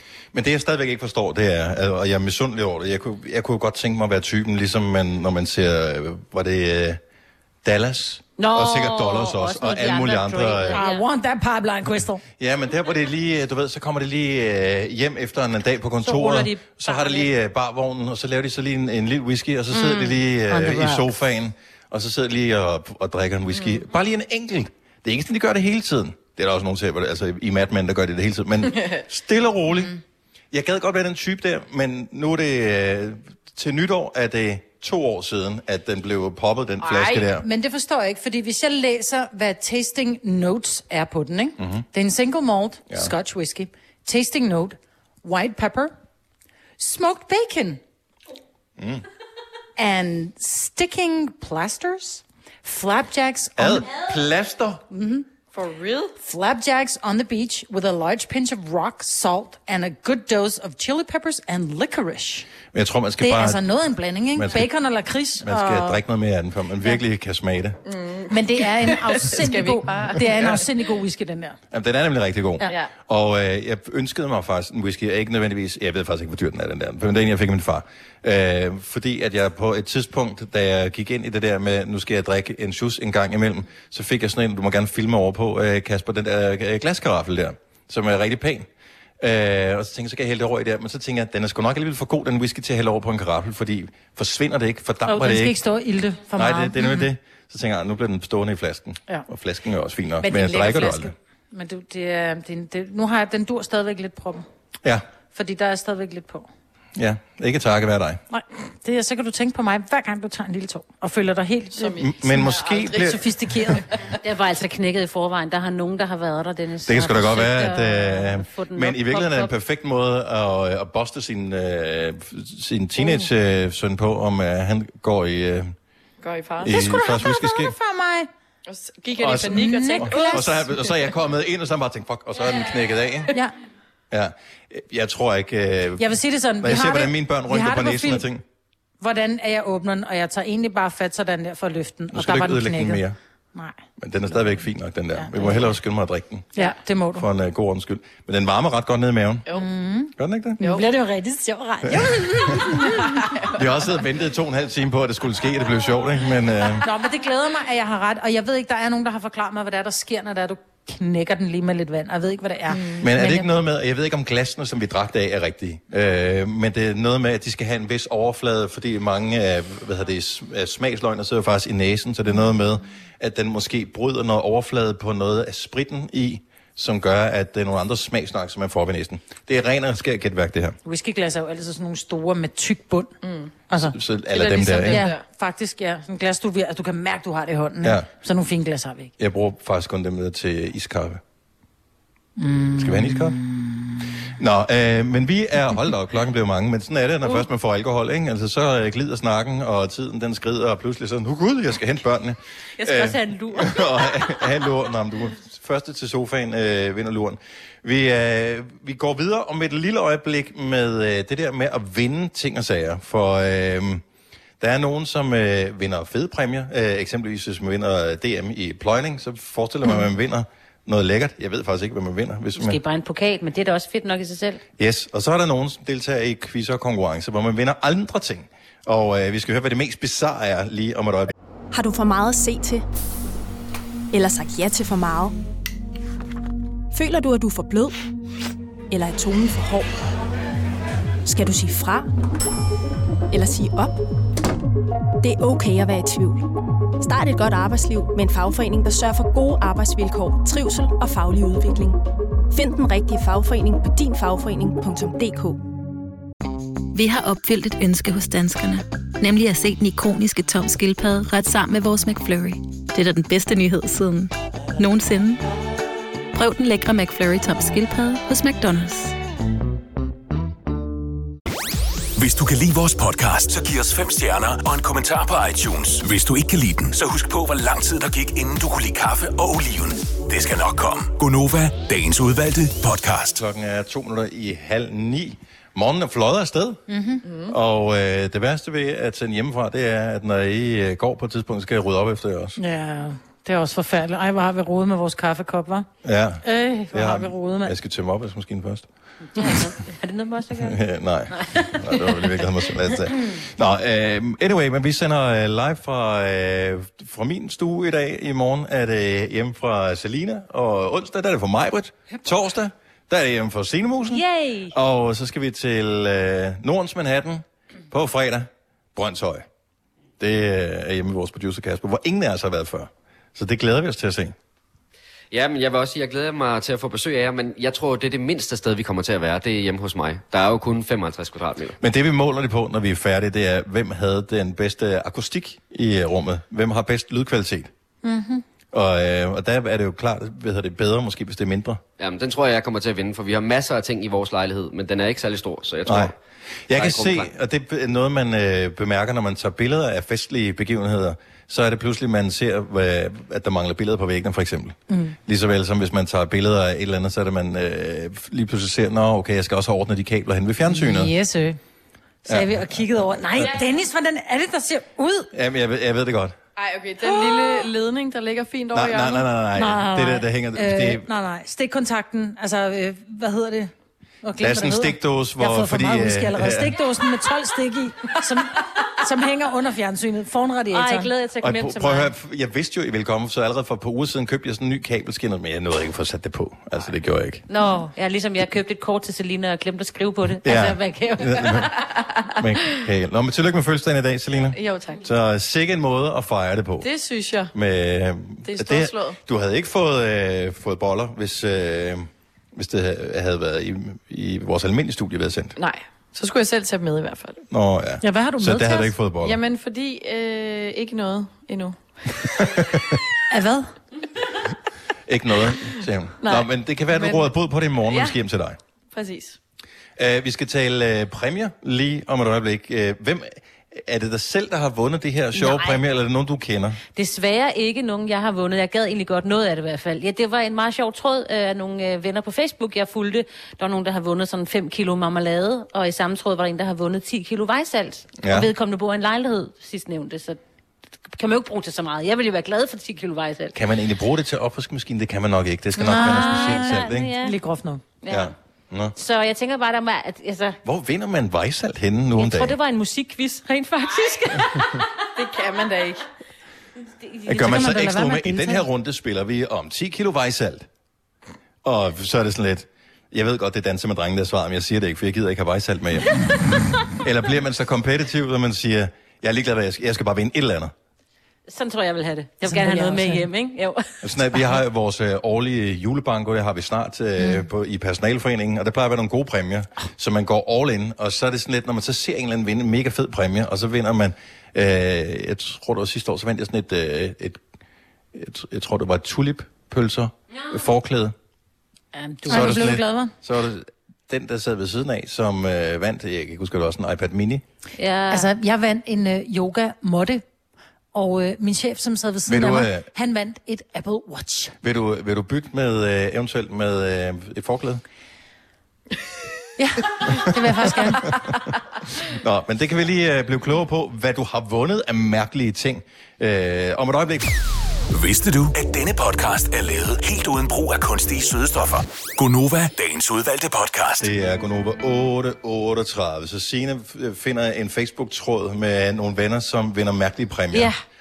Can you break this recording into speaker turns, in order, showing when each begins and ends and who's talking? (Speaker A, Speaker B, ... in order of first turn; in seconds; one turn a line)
Speaker A: 0.3-7.0
Speaker A: 7.6-10.8
Speaker B: 8.4-11.0
Speaker C: 10.7-12.2
Speaker A: 12.4-29.9
Speaker B: 16.0-17.3
Speaker B: 19.7-21.0
Speaker D: 23.6-23.8
Speaker D: 28.7-29.0
Speaker A: 30.5-37.5
Speaker D: 36.8-37.2
Speaker C: 37.4-46.0
Speaker A: 41.6-41.8
Speaker C: 46.8-47.8
Speaker A: 48.8-49.0
Speaker C: 49.8-53.9
Speaker A: 53.6-54.8
Speaker C: 54.9-55.2
Speaker D: 55.5-56.1
Speaker C: 56.2-62.5
Speaker A: 62.7-63.6
Speaker C: 63.2-66.0
Speaker A: 64.3-64.7
Speaker A: 65.4-67.8
Speaker D: 67.8-70.7
Speaker C: 68.3-71.6
Speaker A: 71.7-88.7
Speaker D: 72.7-72.9
Speaker A: 89.2-95.6
Speaker C: 95.0-97.1
Speaker A: 96.3-101.1
Speaker C: 100.2-104.4
Speaker C: 105.3-106.5
Speaker A: 107.0-108.2
Speaker C: 108.3-113.8
Speaker D: 111.8-113.2
Speaker A: 112.0-113.2
Speaker B: 114.2-119.5
Speaker A: 116.8-125.7
Speaker D: 126.2-126.8
Speaker A: 126.6-127.7
Speaker C: 126.6-128.3
Speaker D: 128.7-130.6
Speaker A: 129.2-133.3
Speaker C: 129.4-130.9
Speaker A: 134.1-138.4
Speaker C: 136.0-138.3
Speaker C: 139.0-143.8
Speaker A: 142.1-143.2
Speaker A: 144.0-146.6
Speaker C: 145.2-145.7
Speaker C: 146.5-147.2
Speaker A: 147.1-149.5
Speaker C: 149.5-153.4
Speaker A: 150.2-150.6
Speaker D: 150.6-150.8
Speaker A: 151.8-152.7
Speaker D: 153.0-153.5
Speaker A: 153.5-156.8
Speaker C: 156.8-163.5
Speaker D: 162.7-163.1
Speaker A: 163.0-180.8
Speaker C: 180.8-183.1
Speaker D: 183.2-183.5
Speaker C: 183.7-189.1
Speaker A: 183.7-185.1
Speaker D: 184.4-185.2
Speaker A: 189.2-191.2
Speaker C: 192.4-194.0
Speaker A: 192.8-193.4
Speaker A: 194.3-214.0
Speaker B: 202.8-204.4
Speaker A: 214.6-222.8
Speaker B: 222.6-224.6
Speaker A: 224.8-231.3
Speaker E: 231.7-232.8
Speaker E: 234.1-235.3
Speaker E: 236.9-237.9
Speaker E: 238.9-239.9
Speaker E: 241.2-242.1
Speaker E: 243.3-244.0
Speaker E: 245.2-246.4
Speaker E: 247.0-252.0
Speaker E: 252.5-255.6
Speaker F: 256.9-265.4
Speaker F: 266.3-269.1
Speaker G: 272.1-283.4
Speaker A: 283.3-286.8
Speaker C: 286.9-287.2
Speaker D: 287.2-287.5
Speaker A: 287.5-292.6
Speaker C: 292.6-295.9
Speaker A: 296.0-298.9
Speaker C: 296.4-297.7
Speaker B: 299.4-300.8
Speaker A: 300.6-319.4
Speaker B: 301.3-302.2
Speaker B: 314.1-314.7
Speaker A: 320.2-324.3
Speaker H: 325.3-331.8
Speaker A: 331.8-337.7
Speaker C: 338.0-338.4
Speaker A: 338.7-341.8
Speaker H: 342.0-346.1
Speaker A: 345.9-346.1
Speaker A: 346.7-361.1
Speaker H: 346.7-347.3
Speaker C: 354.9-355.1
Speaker C: 360.7-361.6
Speaker C: 362.2-365.3
Speaker A: 362.3-363.5
Speaker A: 365.3-366.4
Speaker D: 366.6-369.3
Speaker C: 367.0-367.6
Speaker A: 368.7-371.1
Speaker C: 369.6-373.7
Speaker C: 374.2-381.1
Speaker A: 374.4-376.8
Speaker B: 380.7-382.1
Speaker A: 381.4-387.4
Speaker B: 387.5-391.7
Speaker A: 390.4-391.7
Speaker A: 392.4-396.9
Speaker D: 394.5-395.0
Speaker D: 396.8-397.5
Speaker A: 397.5-405.5
Speaker D: 398.4-399.2
Speaker D: 405.6-407.4
Speaker A: 407.5-409.4
Speaker C: 408.0-408.9
Speaker D: 409.2-412.0
Speaker A: 412.4-412.9
Speaker C: 413.3-413.7
Speaker A: 415.1-418.6
Speaker D: 416.2-417.3
Speaker D: 417.9-418.1
Speaker D: 418.9-419.4
Speaker A: 420.0-426.8
Speaker B: 425.3-425.8
Speaker B: 426.9-440.4
Speaker A: 438.2-438.5
Speaker B: 441.1-443.6
Speaker A: 443.5-447.1
Speaker C: 445.8-447.8
Speaker B: 445.9-447.4
Speaker B: 448.0-448.3
Speaker A: 448.1-448.9
Speaker B: 448.9-450.6
Speaker A: 450.6-452.6
Speaker B: 452.2-454.9
Speaker D: 455.1-456.1
Speaker B: 456.8-457.6
Speaker A: 457.3-460.7
Speaker C: 457.4-458.6
Speaker A: 461.6-466.2
Speaker A: 467.0-470.7
Speaker B: 471.5-474.1
Speaker C: 472.4-473.2
Speaker A: 474.0-487.4
Speaker A: 488.1-491.1
Speaker B: 491.9-492.7
Speaker C: 492.3-493.1
Speaker A: 492.3-497.4
Speaker B: 497.8-498.3
Speaker C: 498.1-500.2
Speaker C: 500.9-504.6
Speaker A: 502.3-502.9
Speaker A: 504.6-507.8
Speaker C: 509.6-511.1
Speaker A: 512.0-517.3
Speaker G: 517.9-524.1
Speaker A: 524.0-530.7
Speaker B: 530.5-530.8